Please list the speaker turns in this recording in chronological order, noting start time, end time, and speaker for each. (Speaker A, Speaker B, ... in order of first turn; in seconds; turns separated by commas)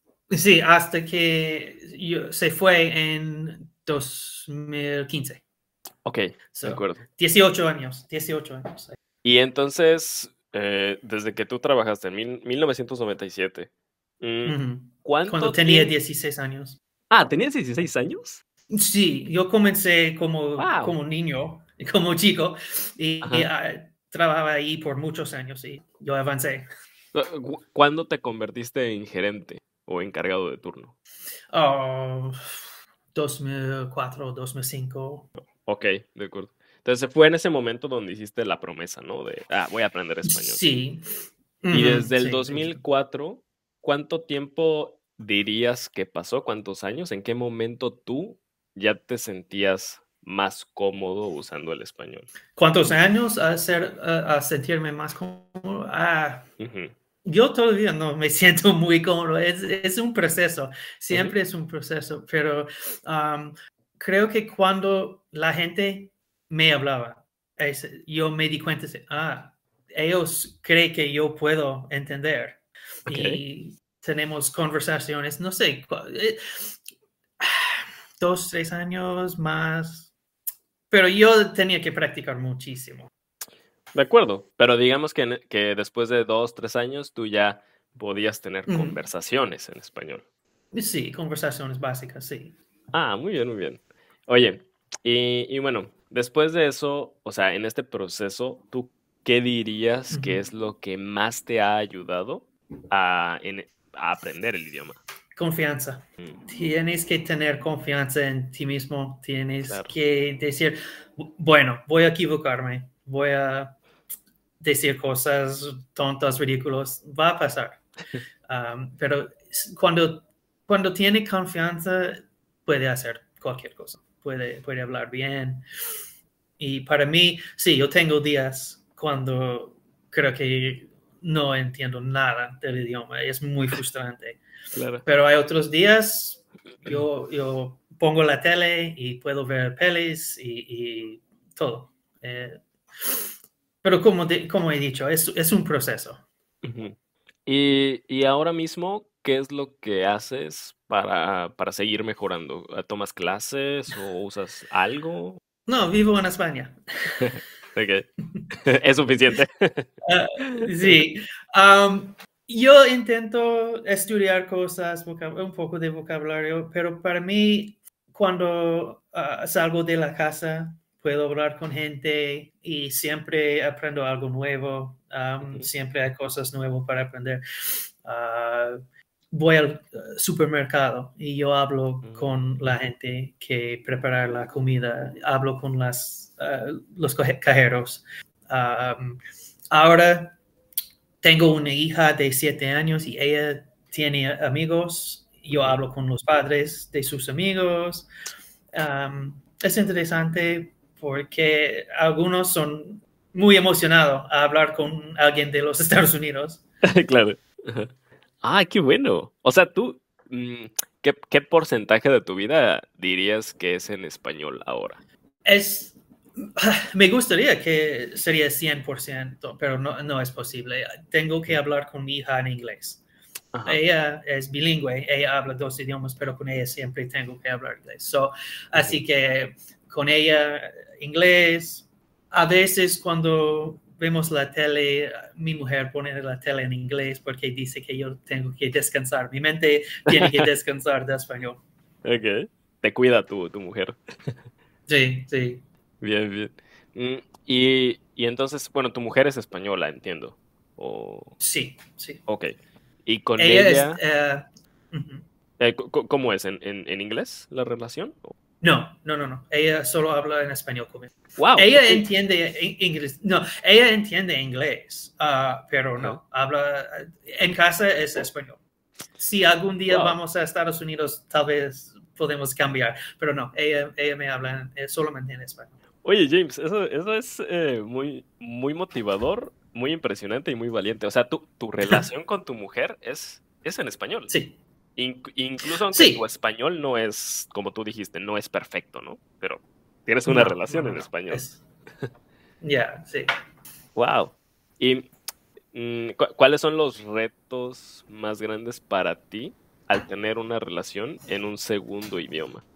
Speaker A: 0.3-5.4, Speaker B: 6.0-7.0, Speaker A: 6.5-9.0, Speaker B: 9.2-13.7, Speaker B: 14.2-15.9, Speaker A: 14.4-16.8, Speaker B: 17.1-18.4, Speaker A: 18.7-26.7, Speaker B: 20.6-20.9, Speaker B: 23.2-23.5, Speaker B: 27.1-30.9, Speaker A: 31.5-35.3, Speaker B: 35.5-40.6, Speaker A: 40.2-41.0, Speaker A: 41.6-42.8, Speaker B: 41.7-52.3, Speaker A: 52.5-56.5, Speaker B: 56.6-56.9, Speaker A: 57.2-76.8, Speaker B: 73.1-73.4, Speaker A: 77.4-80.1, Speaker A: 80.9-83.1, Speaker B: 83.9-90.2, Speaker A: 88.7-89.0, Speaker A: 90.7-92.5, Speaker B: 92.9-105.0, Speaker A: 100.1-100.4, Speaker A: 105.3-113.8, Speaker B: 109.6-109.9, Speaker A: 114.6-117.8, Speaker A: 118.5-125.6, Speaker A: 126.6-134.4, Speaker B: 134.7-135.0, Speaker A: 135.0-143.3, Speaker A: 143.8-146.2, Speaker B: 146.6-146.9, Speaker B: 147.4-155.4, Speaker A: 155.7-157.2, Speaker B: 157.2-159.9, Speaker A: 160.1-178.8, Speaker B: 160.4-161.0, Speaker A: 179.3-189.2, Speaker B: 182.0-182.3, Speaker A: 189.7-190.4, Speaker A: 191.2-198.1, Speaker B: 195.5-195.8, Speaker A: 198.7-206.6, Speaker B: 206.9-207.9, Speaker B: 208.4-215.0, Speaker A: 215.4-223.0, Speaker B: 223.5-223.8, Speaker A: 223.7-241.6, Speaker B: 228.7-229.0, Speaker B: 240.1-240.4, Speaker B: 242.0-244.4, Speaker A: 244.9-245.6, Speaker B: 246.0-251.3, Speaker A: 251.4-252.2, Speaker B: 252.2-252.5, Speaker B: 253.0-254.0, Speaker A: 253.4-255.2, Speaker B: 255.6-258.3, Speaker A: 258.6-268.6, Speaker B: 261.4-262.1, Speaker A: 269.2-275.7, Speaker B: 269.9-270.2, Speaker B: 276.0-284.3, Speaker A: 284.3-284.6, Speaker B: 284.9-291.4, Speaker A: 285.9-286.2, Speaker A: 290.3-291.6, Speaker A: 292.6-293.3, Speaker B: 293.9-295.1, Speaker B: 295.7-302.6